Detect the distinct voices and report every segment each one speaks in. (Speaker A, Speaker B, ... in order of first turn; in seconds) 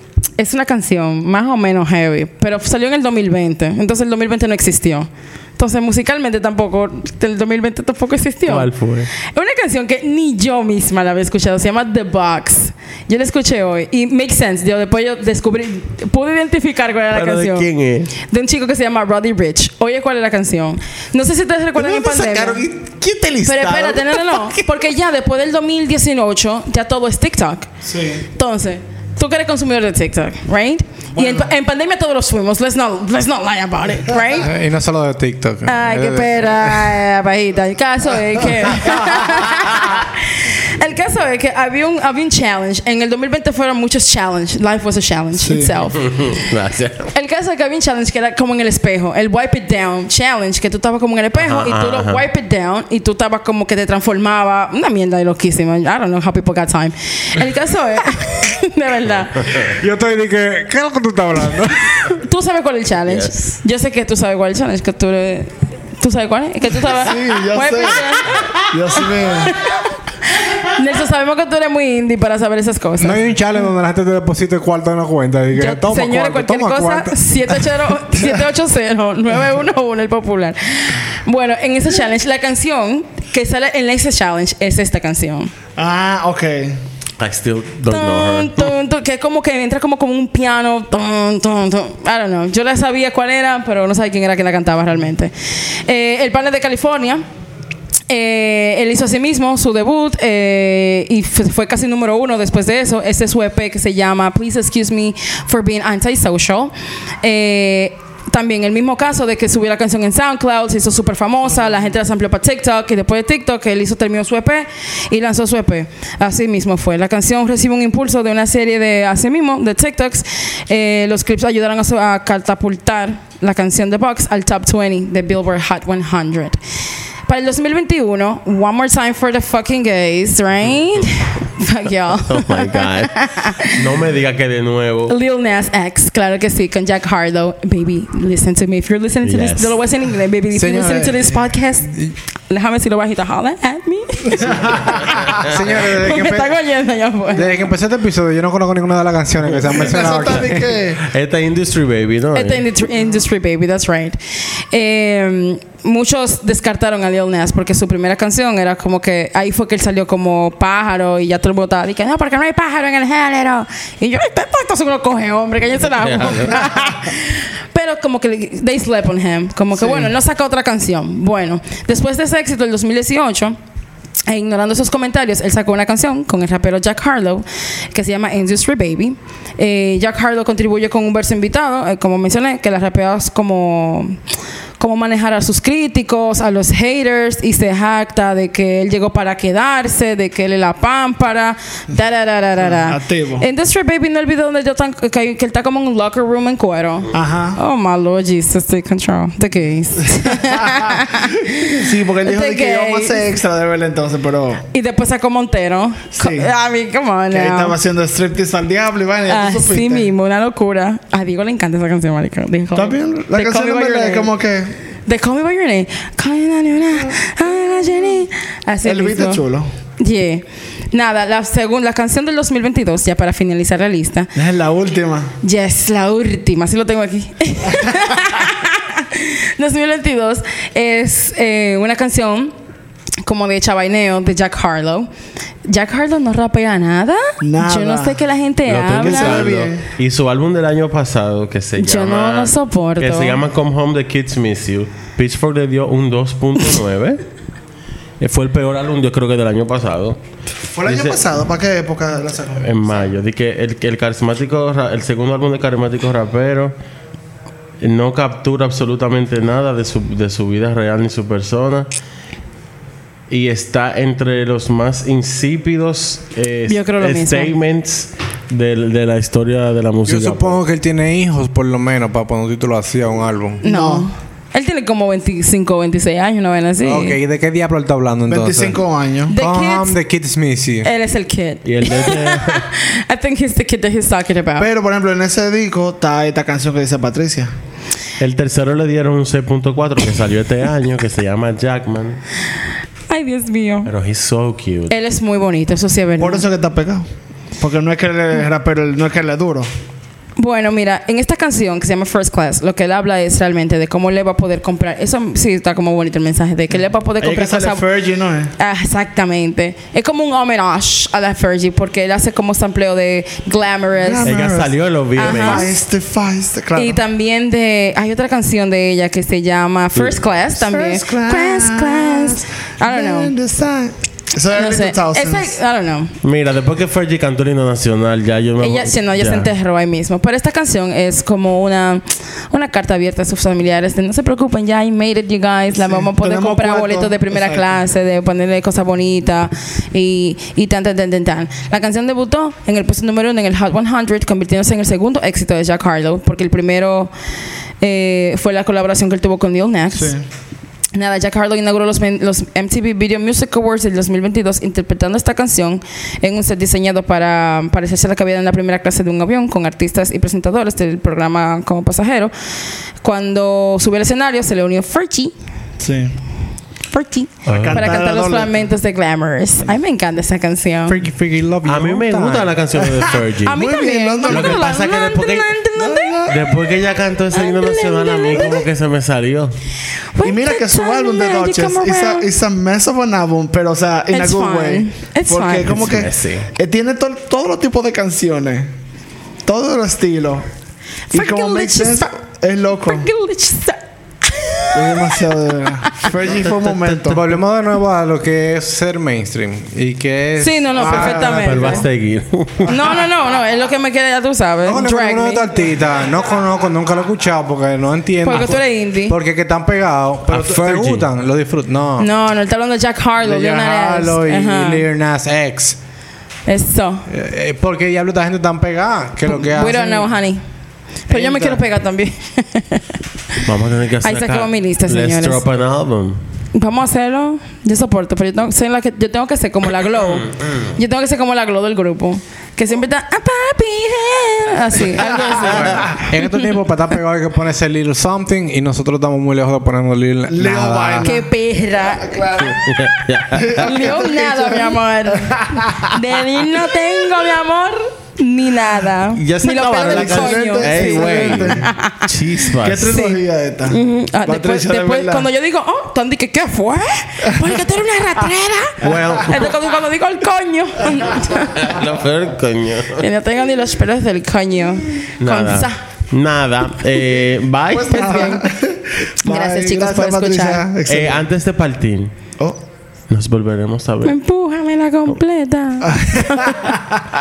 Speaker A: 0.4-22.6, 23.4-27.7, 28.4-34.5, 35.7-46.3, 47.1-59.7, 62.0-68.6, 69.4-73.2, 75.5-85.5, 87.9-97.2, 98.1-126.6, 127.3-133.8, 135.1-145.2, 145.8-147.6, 152.3-154.2, 154.7-173.6, 174.3-184.2, 184.8-203.2, 204.7-207.8, 209.3-214.3, 215.1-219.4, 220.0-224.3, 225.4-232.5, 233.2-235.1, 235.7-239.5, 241.8-243.4, 266.7-267.6, 273.6-277.2, 279.3-280.0, 280.8-284.7, 293.1-293.9, 294.9-296.5, 300.4-307.9, 308.6-314.3, 315.2-315.7, 316.8-323.3, 324.5-326.1, 328.6-347.1, 347.8-350.1, 350.9-362.3, 363.0-365.3, 366.9-371.0, 373.5-376.3, 377.3-378.7, 380.1-382.3, 384.1-385.9, 391.1-392.1, 392.8-395.2, 395.8-396.1, 400.4-401.9, 402.7-405.5, 408.2-409.2, 412.0-414.8, 416.5-417.1, 419.3-420.4, 421.1-422.9, 424.0-425.4, 426.5-436.5, 441.0-442.2, 443.5-452.1, 452.9-461.8, 463.0-465.8, 467.9-468.4, 469.2-470.6, 474.0-476.8
Speaker B: 8.5-9.1, 17.1-18.1, 21.8-24.7, 46.0-47.1, 51.4-52.2, 63.1-63.5, 87.2-88.8, 132.2-135.1, 139.2-139.8, 151.0-152.6, 166.0-166.7, 238.7-247.2, 248.2-250.2, 250.8-251.2, 252.6-256.7, 257.8-261.9, 263.3-270.6, 281.6-282.7, 288.2-292.2, 293.9-294.9, 314.2-315.7, 326.2-329.5, 367.5-367.9, 371.6-373.6, 374.3-375.5, 376.3-379.6, 385.7-386.5, 396.3-397.2, 401.0-402.9, 410.3-411.1, 423.4-426.2, 430.2-430.7, 442.4-443.6, 449.1-453.0, 458.8-459.6, 461.4-463.1, 465.2-468.3, 470.9-472.1, 473.1-474.2
Speaker C: 27.8-28.2, 31.1-31.5, 45.4-45.7, 66.9-69.6, 85.8-86.8, 149.5-151.0, 169.7-170.1, 192.7-193.5, 197.1-197.6, 200.3-204.6, 206.1-206.5, 207.3-210.1, 212.8-214.7, 218.8-219.7, 224.4-225.3, 237.4-238.2, 239.0-239.8, 250.7-252.7, 273.6-274.1, 278.3-279.4, 284.6-287.5, 296.2-299.7, 307.2-308.5, 314.0-317.0, 320.5-325.6, 335.8-337.7, 350.0-350.2, 365.8-366.2, 367.5-368.5, 372.8-374.7, 375.8-376.5, 380.2-388.7, 389.4-390.5, 391.1-393.1, 394.7-397.3, 400.8-401.4, 435.1-435.9, 440.3-441.3, 441.9-446.0, 449.8-451.7, 452.6-455.3, 458.8-459.4, 467.7-471.3, 475.9-477.0
Speaker D: 34.4-36.9, 59.7-62.0, 73.0-77.2, 140.6-141.4, 145.2-146.5, 147.3-150.7, 270.1-273.6, 276.8-278.8, 279.4-280.9, 370.9-372.5, 397.0-401.8, 404.6-412.1, 413.2-415.8, 417.1-420.1, 421.1-421.5, 435.6-441.1